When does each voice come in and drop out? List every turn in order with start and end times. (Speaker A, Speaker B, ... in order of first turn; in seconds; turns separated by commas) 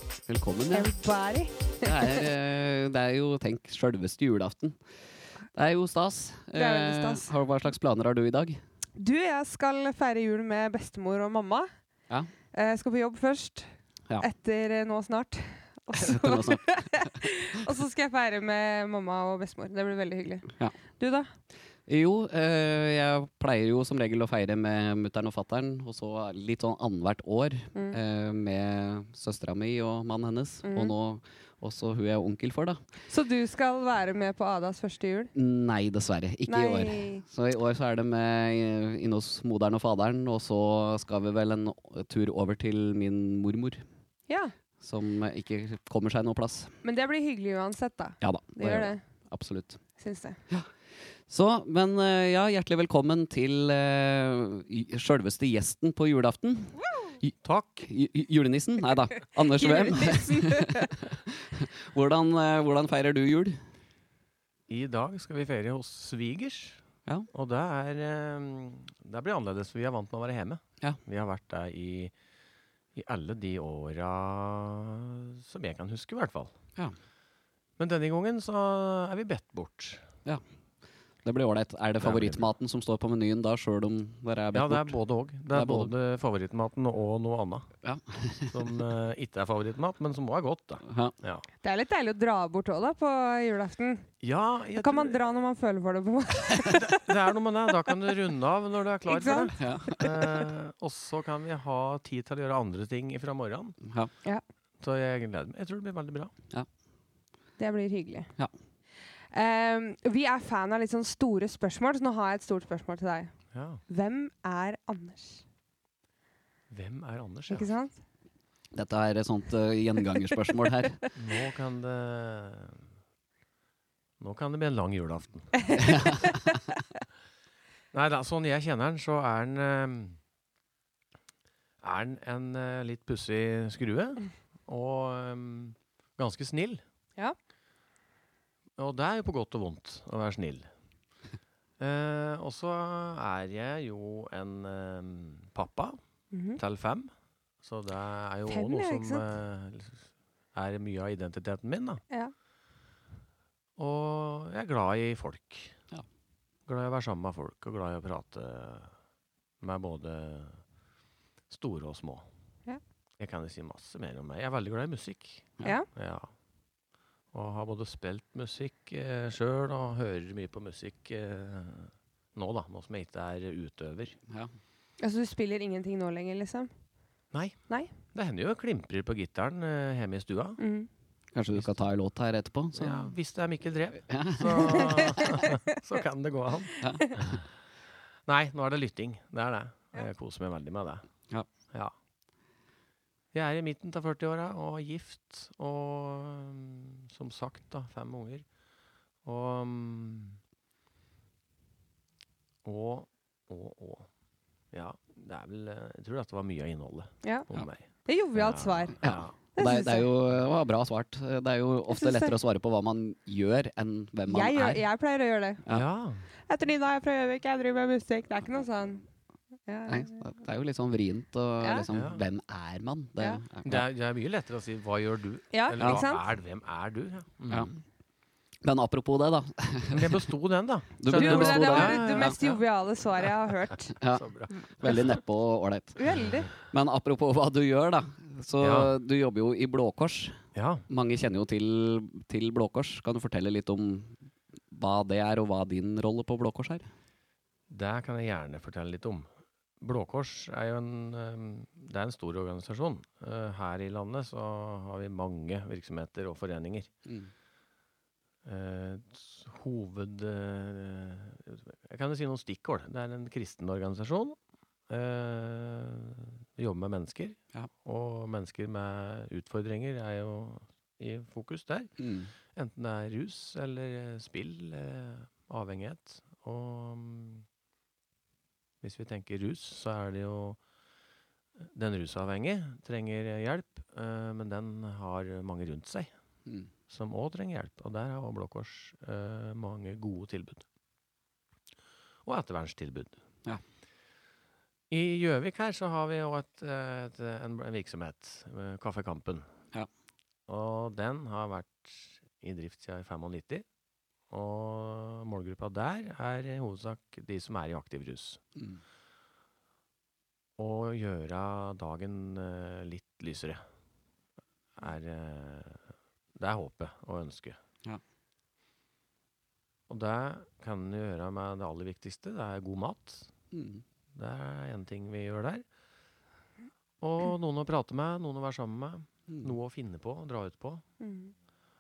Speaker A: 0.2-0.9, Speaker B: 0.7-2.2, Speaker A: 1.8-4.8, Speaker A: 5.5-8.6, Speaker B: 6.5-7.3, Speaker B: 9.0-11.7, Speaker B: 12.5-21.3, Speaker A: 15.9-17.7, Speaker A: 21.9-32.8, Speaker B: 30.6-30.9, Speaker B: 33.1-35.3, Speaker A: 35.3-43.8, Speaker B: 36.5-37.2, Speaker A: 44.8-46.7, Speaker B: 46.8-49.0, Speaker A: 48.2-49.8, Speaker B: 50.0-50.4, Speaker A: 51.3-63.6, Speaker C: 57.4-57.9, Speaker B: 59.5-60.9, Speaker C: 64.7-66.8, Speaker C: 67.3-72.1, Speaker C: 73.0-76.5, Speaker C: 77.8-80.0, Speaker A: 81.2-85.0, Speaker C: 82.0-82.5, Speaker C: 84.5-87.7, Speaker A: 85.5-85.9, Speaker A: 87.8-88.8, Speaker C: 88.5-91.5, Speaker A: 90.8-91.1, Speaker B: 91.6-94.1, Speaker C: 94.2-95.2, Speaker B: 94.8-97.0, Speaker C: 96.7-103.8, Speaker B: 99.1-100.2, Speaker A: 99.6-100.3, Speaker A: 103.8-104.1, Speaker C: 104.8-106.3, Speaker B: 107.6-108.3, Speaker B: 109.3-113.3, Speaker C: 113.5-113.8, Speaker B: 113.9-115.4, Speaker C: 116.7-117.7, Speaker B: 117.5-118.0, Speaker A: 118.7-121.0, Speaker C: 121.2-122.8, Speaker C: 124.2-125.5, Speaker B: 125.6-126.3, Speaker A: 125.8-126.6, Speaker C: 127.9-130.2, Speaker C: 131.8-136.8, Speaker C: 138.8-140.7, Speaker C: 141.8-146.0, Speaker B: 146.3-146.6, Speaker C: 146.6-147.1, Speaker C: 147.6-152.0, Speaker B: 148.5-149.3, Speaker C: 153.8-155.8, Speaker C: 156.7-158.9, Speaker C: 159.6-160.6, Speaker C: 161.5-162.2, Speaker C: 163.2-166.3, Speaker C: 167.3-174.2, Speaker A: 174.3-174.5, Speaker B: 175.0-176.7, Speaker C: 177.3-180.6, Speaker B: 180.6-180.9, Speaker A: 181.3-183.1, Speaker C: 182.7-187.4, Speaker A: 184.1-185.2, Speaker B: 185.2-185.5, Speaker A: 186.8-187.4, Speaker C: 188.2-191.1, Speaker C: 193.3-198.4, Speaker C: 199.2-200.4, Speaker C: 202.6-204.1, Speaker C: 204.7-209.3, Speaker B: 208.1-209.0, Speaker A: 209.0-214.8, Speaker B: 209.5-210.1, Speaker B: 211.9-212.3, Speaker B: 214.3-215.6, Speaker C: 215.7-216.3, Speaker B: 216.5-219.0, Speaker B: 219.7-220.2, Speaker A: 219.9-223.8, Speaker B: 221.6-221.9, Speaker C: 221.9-222.2, Speaker C: 223.6-227.7, Speaker B: 225.5-226.2, Speaker A: 227.5-227.8, Speaker A: 228.6-230.3, Speaker C: 229.9-232.6, Speaker A: 231.0-232.4, Speaker B: 231.1-233.9, Speaker A: 234.0-236.0, Speaker C: 234.1-235.1, Speaker B: 236.0-236.5, Speaker A: 236.5-244.2, Speaker C: 238.6-238.9, Speaker C: 240.5-240.8, Speaker A: 244.7-246.9, Speaker C: 247.7-249.3, Speaker C: 249.8-256.9, Speaker A: 257.1-257.3, Speaker C: 258.4-264.4, Speaker C: 264.9-272.0, Speaker A: 272.0-272.3, Speaker C: 272.5-277.4, Speaker C: 278.8-280.6, Speaker C: 281.7-286.1, Speaker C: 286.9-290.6, Speaker C: 292.2-293.2, Speaker C: 294.9-299.4, Speaker C: 300.5-303.6, Speaker C: 304.3-308.4, Speaker A: 308.6-308.8, Speaker C: 310.6-313.6, Speaker C: 314.8-315.8, Speaker C: 316.4-317.6, Speaker C: 319.9-323.3, Speaker A: 323.5-323.8, Speaker C: 324.1-325.6, Speaker C: 327.0-330.8, Speaker A: 329.3-329.5, Speaker B: 331.0-331.3